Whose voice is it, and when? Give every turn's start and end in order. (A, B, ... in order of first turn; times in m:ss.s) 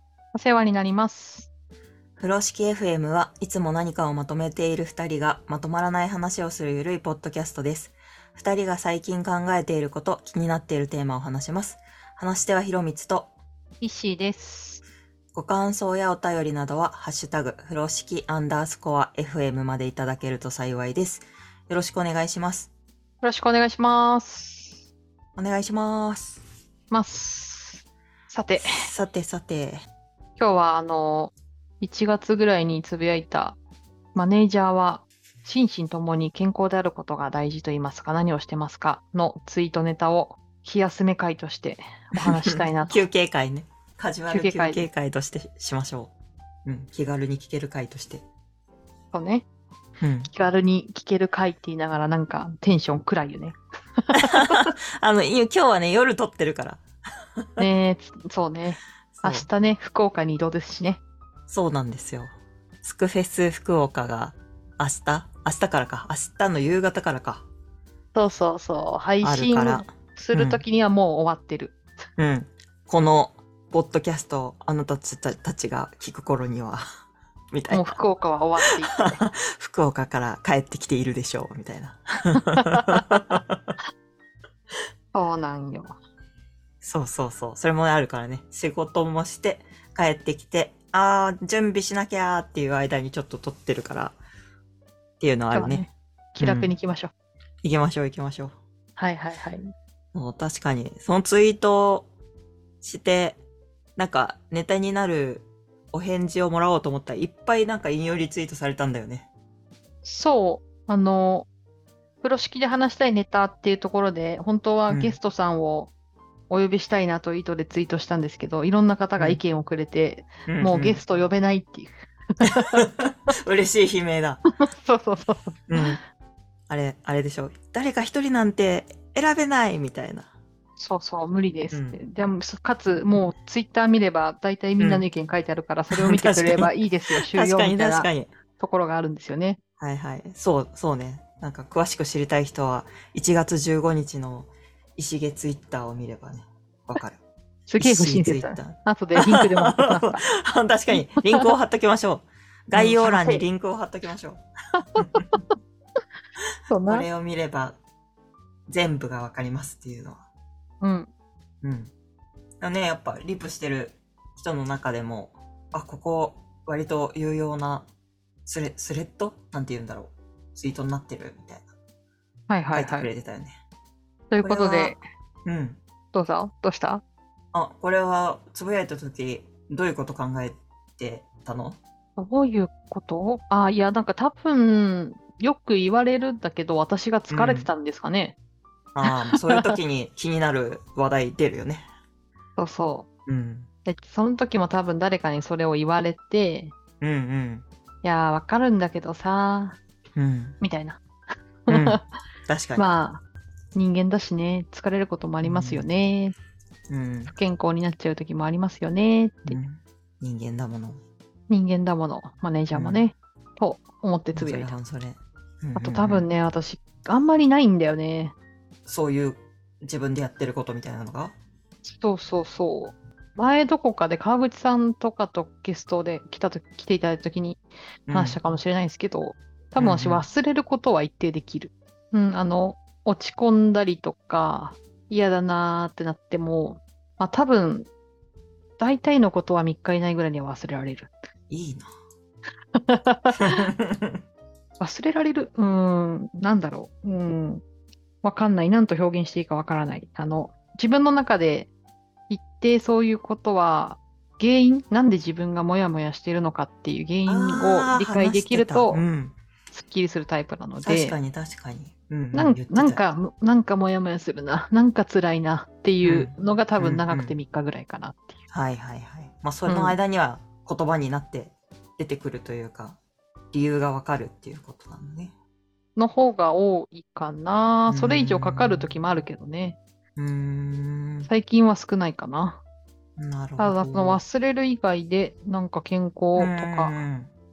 0:00.3-0:01.5 A
0:02.2-0:13.3 B
0:13.8-0:14.8 A
0:15.3-0:22.7 B
0:23.2-0:24.8 A
0:25.4-0:26.4 B
0:26.9-0:28.7 A
0:28.6-0:29.8 B
0:30.4-0:33.6 A
0:34.1-0:43.0 A
0:42.2-0:46.1 B
0:44.3-0:44.9 A
0:46.6-0:48.2 B
0:49.1-0:49.4 A
0:50.0-0:50.3 B
0:50.2-0:54.7 A
0:54.1-0:56.8 B
0:57.4-0:57.6 B
0:57.6-1:01.0 A
0:59.1-0:59.5 B
1:01.5-1:02.3 B
1:02.8-1:07.4 B
1:08.1-1:11.8 A
1:09.2-1:10.6 B
1:12.2-1:16.8 B
1:17.5-1:18.0 B
1:17.7-1:19.2 A
1:18.6-1:23.7 B
1:22.5-1:23.0 A
1:25.1-1:26.0 A
1:26.8-1:34.1 B
1:35.2-1:35.8 B
1:35.5-1:37.1 A
1:36.4-1:36.7 B
1:37.6-1:38.5 B
1:39.0-1:39.7 A
1:40.1-1:42.1 B
1:42.8-1:43.4 B
1:44.0-1:49.3 B
1:50.0-1:51.5 A
1:52.2-1:55.9 A
1:54.9-1:55.2 B
1:56.5-2:02.8 A
2:00.5-2:01.0 B
2:02.4-2:04.4 B
2:04.6-2:06.0 A
2:05.7-2:06.0 B
2:06.7-2:10.3 B
2:10.8-2:19.6 A
2:11.7-2:12.0 B
2:14.8-2:15.0 B
2:15.9-2:18.3 B
2:19.8-2:27.2 B
2:27.7-2:30.2 A
2:27.8-2:34.4 B
2:30.9-2:31.4 A
2:32.7-2:33.4 A
2:35.0-2:35.2 A
2:35.0-2:35.3 B
2:36.7-2:37.1 A
2:36.8-2:37.8 B
2:38.7-2:40.2 B
2:40.8-2:41.1 A
2:41.6-2:41.9 B
2:42.6-2:47.9 B
2:48.5-2:51.7 B
2:52.5-2:53.1 A
2:52.7-2:53.6 B
2:54.3-2:55.0 A
2:54.4-2:55.8 B
2:56.1-2:57.0 A
2:57.5-3:01.8 B
3:02.2-3:08.4 A
3:07.3-3:07.7 B
3:08.9-3:11.8 B
3:09.0-3:09.7 A
3:12.6-3:13.1 A
3:13.3-3:13.7 B
3:13.8-3:16.7 A
3:17.0-3:17.6 B
3:18.0-3:19.8 A
3:20.2-3:20.6 B
3:20.6-3:21.0 A
3:21.7-3:22.0 A
3:21.7-3:22.9 B
3:22.8-3:23.2 A
3:23.7-3:26.3 A
3:25.4-3:25.8 B
3:26.9-3:27.3 B
3:27.3-3:29.6 A
3:29.5-3:31.0 B
3:31.5-3:34.7 A
3:32.7-3:33.0 B
3:34.3-3:36.3 B
3:35.7-3:38.3 A
3:38.8-3:41.3 B
3:41.8-3:57.9 A
3:48.1-3:48.4 B
3:49.8-3:50.2 B
3:58.8-4:01.1 A
4:01.5-4:01.9 B
4:02.8-4:03.6 A
4:03.3-4:04.2 B
4:04.8-4:07.6 A
4:08.2-4:11.7 A
4:12.3-4:19.0 A
4:17.3-4:19.4 B
4:19.7-4:21.2 A
4:20.8-4:23.0 B
4:22.3-4:28.4 A
4:26.0-4:27.4 B
4:28.5-4:33.0 B
4:29.7-4:30.0 A
4:33.5-4:35.3 B
4:36.0-4:39.8 A
4:37.9-4:38.9 B
4:40.2-4:41.3 B
4:41.3-4:42.6 A
4:43.2-4:44.2 B
4:43.6-4:47.0 A
4:46.4-4:47.3 B